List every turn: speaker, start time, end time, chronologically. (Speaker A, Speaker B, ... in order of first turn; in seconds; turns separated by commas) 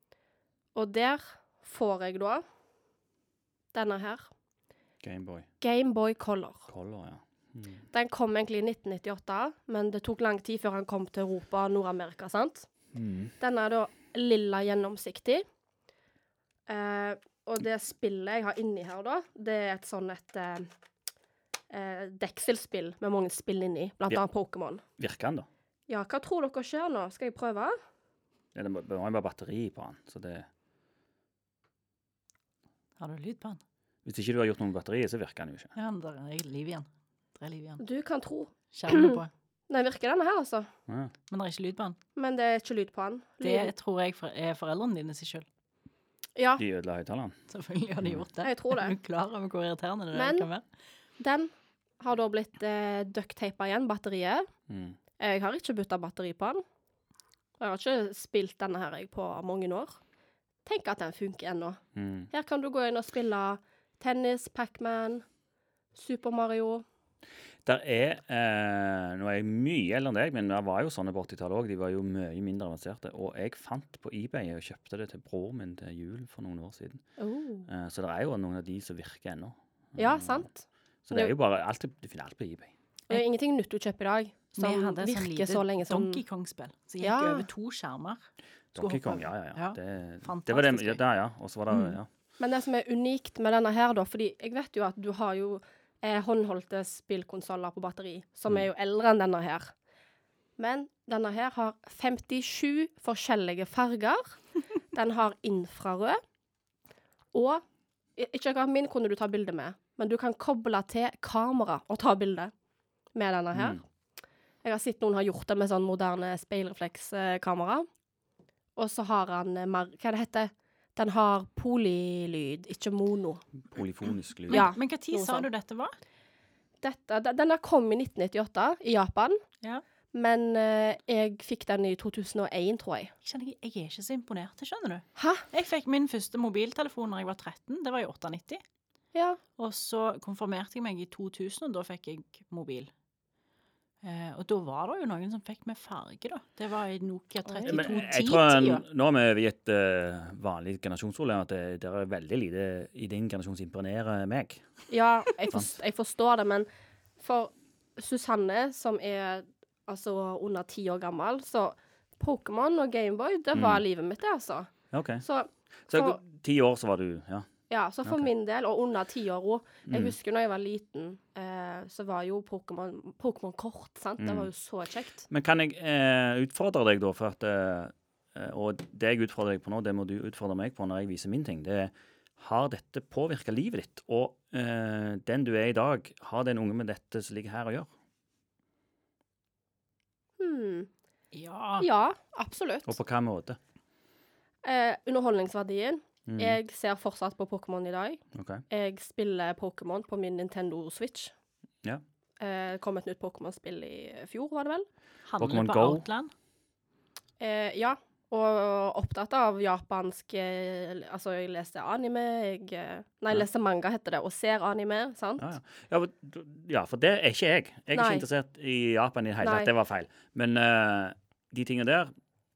Speaker A: 0.8-2.4, Speaker A: 3.7-4.3, Speaker B: 5.0-5.5, Speaker A: 5.6-6.7, Speaker B: 6.7-7.8, Speaker A: 7.9-12.7, Speaker B: 12.9-13.3, Speaker A: 13.4-15.4, Speaker A: 16.7-20.7, Speaker A: 21.7-24.8, Speaker B: 25.0-25.5, Speaker A: 25.9-27.8, Speaker B: 28.5-30.5, Speaker C: 33.0-33.6, Speaker B: 34.0-35.7, Speaker C: 35.8-36.9, Speaker C: 37.4-37.8, Speaker A: 37.8-40.7, Speaker C: 38.7-39.3, Speaker C: 41.3-42.0, Speaker A: 42.2-43.7, Speaker C: 43.4-45.5, Speaker A: 46.4-46.6, Speaker B: 46.6-47.4, Speaker C: 47.5-50.6, Speaker A: 48.4-48.9, Speaker A: 50.1-50.5, Speaker A: 51.2-54.5, Speaker B: 54.7-55.0, Speaker A: 55.2-56.6, Speaker A: 57.6-60.0, Speaker A: 60.6-65.2, Speaker B: 62.0-62.3, Speaker A: 65.9-66.8, Speaker B: 67.7-77.0, Speaker A: 77.2-77.7, Speaker B: 77.7-80.5, Speaker A: 80.0-81.3, Speaker B: 81.0-82.7, Speaker A: 83.1-86.2, Speaker C: 84.6-88.2, Speaker A: 87.0-87.5, Speaker B: 88.7-92.1, Speaker C: 88.8-91.0, Speaker C: 91.7-92.0, Speaker A: 92.4-99.7, Speaker A: 100.6-104.4, Speaker A: 104.9-106.2, Speaker A: 107.3-107.6, Speaker A: 108.2-112.5, Speaker A: 113.2-113.8, Speaker B: 113.5-113.8, Speaker A: 114.6-117.9, Speaker A: 118.8-123.4, Speaker B: 123.7-124.7, Speaker C: 124.5-126.0, Speaker A: 124.5-125.5, Speaker A: 126.8-129.4, Speaker A: 130.1-133.1, Speaker C: 133.2-138.6, Speaker A: 135.2-135.5, Speaker A: 139.1-139.4, Speaker C: 139.6-142.9, Speaker C: 144.0-148.8, Speaker A: 147.5-147.8, Speaker B: 147.7-154.6, Speaker A: 154.9-156.7, Speaker A: 157.2-166.2, Speaker B: 163.5-163.8, Speaker B: 164.9-165.2, Speaker B: 165.9-167.5, Speaker A: 167.7-175.2, Speaker B: 169.9-170.1, Speaker B: 174.2-174.5, Speaker B: 175.3-187.9, Speaker A: 190.4-190.9, Speaker C: 191.3-191.9, Speaker A: 191.8-192.9, Speaker B: 192.9-193.6, Speaker A: 194.6-201.3, Speaker B: 196.3-196.6, Speaker B: 198.3-198.6, Speaker A: 202.4-204.9, Speaker C: 205.3-206.3, Speaker B: 205.4-206.1, Speaker A: 207.4-215.5, Speaker B: 215.4-222.1, Speaker A: 217.9-218.2, Speaker A: 219.4-219.7